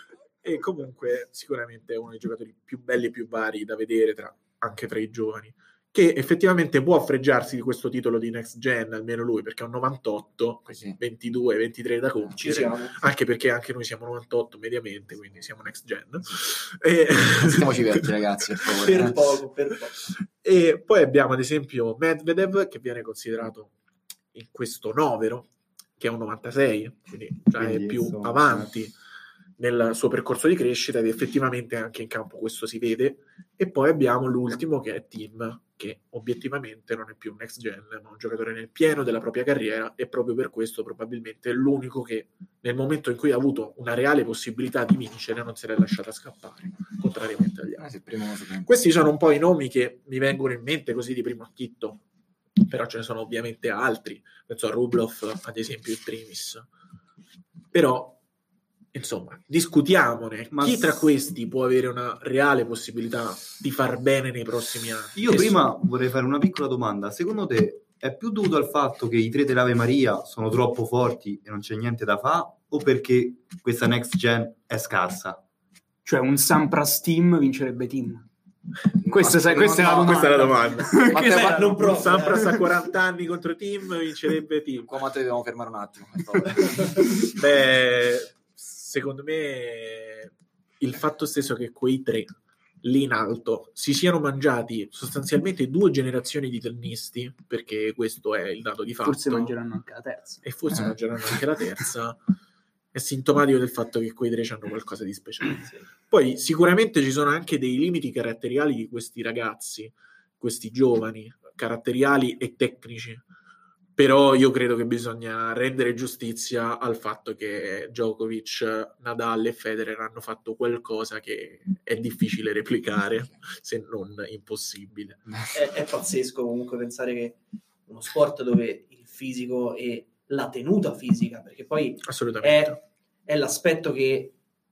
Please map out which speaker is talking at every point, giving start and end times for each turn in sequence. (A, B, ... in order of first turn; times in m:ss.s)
0:00.4-0:18.0 A
0:10.7-0:11.0 B
0:12.4-0:13.0 C
0:17.4-0:19.2 B
0:18.7-0:20.1 C
0:20.4-0:23.7 A
0:24.3-0:29.0 A
0:27.6-0:28.7 D
0:29.6-0:47.9 A
0:47.8-0:48.7 B
0:48.7-0:52.0 A
0:52.6-0:56.7 A
0:57.7-0:58.2 A
0:58.9-1:05.6 A
1:00.5-1:01.1 D
1:05.2-1:15.4 D
1:16.0-1:18.3 E
1:19.0-1:21.8 B
1:19.1-1:22.7 E
1:19.5-1:21.1 A
1:21.2-1:22.6 C
1:21.8-1:25.0 A
1:24.9-1:27.0 B
1:26.4-1:27.3 E
1:27.4-1:39.6 A
1:39.0-1:40.6 E
1:40.4-1:42.2 A
1:42.9-1:53.2 A
1:54.0-2:05.2 A
2:05.5-2:14.4 C
2:12.0-2:12.8 A